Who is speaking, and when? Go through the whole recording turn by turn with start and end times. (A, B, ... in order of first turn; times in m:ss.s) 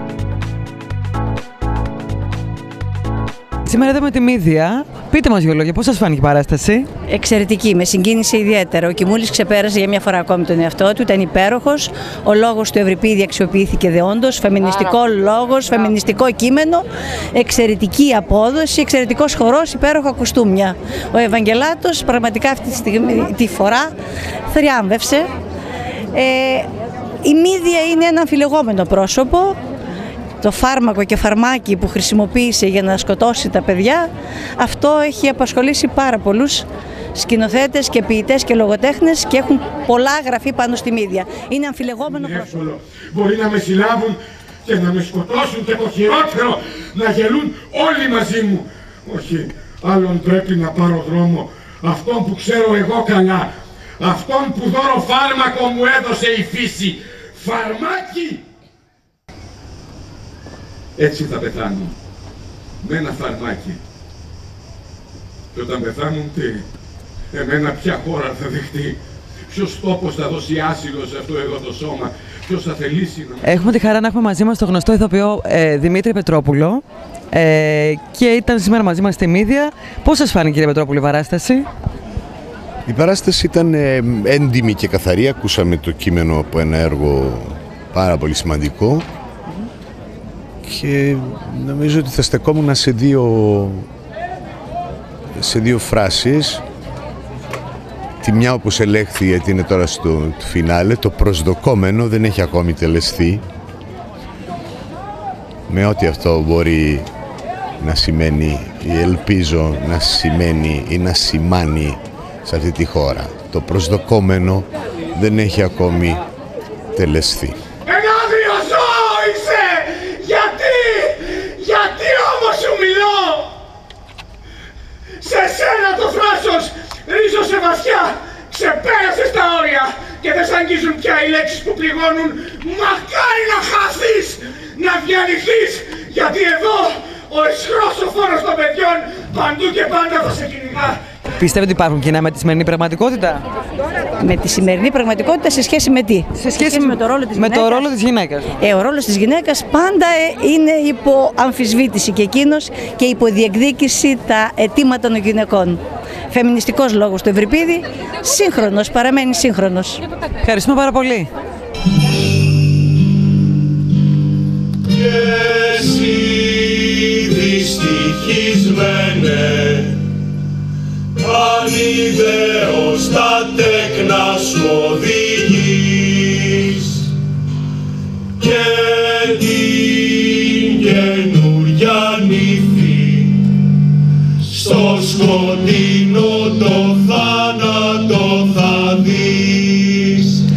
0:03.6-0:06.9 A
0:07.1-0:23.9 B
0:24.5-0:25.3 B
0:26.1-0:26.7 B
0:27.2-0:29.6 B
0:30.4-0:42.5 B
0:42.1-0:58.4 C
1:01.0-1:01.9 C
1:02.8-1:03.8 C
1:05.5-1:06.6 C
1:07.3-1:13.6 C
1:13.4-1:21.7 A
1:22.8-1:29.0 D
1:30.6-1:33.9 D
1:35.3-1:36.6 D
1:38.2-1:43.4 D
1:45.7-1:47.1 D
1:47.8-1:56.2 D
1:56.9-1:57.6 D
1:57.8-2:03.5 C
2:05.2-2:21.0 C
2:21.3-2:23.4 A
2:24.2-2:27.9 B
2:26.3-2:28.5 A
2:28.6-2:40.0 B
2:40.4-2:41.3 A
2:45.2-2:46.6 E
2:47.3-2:50.0 E
2:51.3-2:55.7 E
2:56.0-2:56.6 A
2:56.8-2:57.0 E
2:58.4-2:59.8 E
3:00.0-3:00.4 A
3:00.6-3:03.4 E
3:04.8-3:10.4 E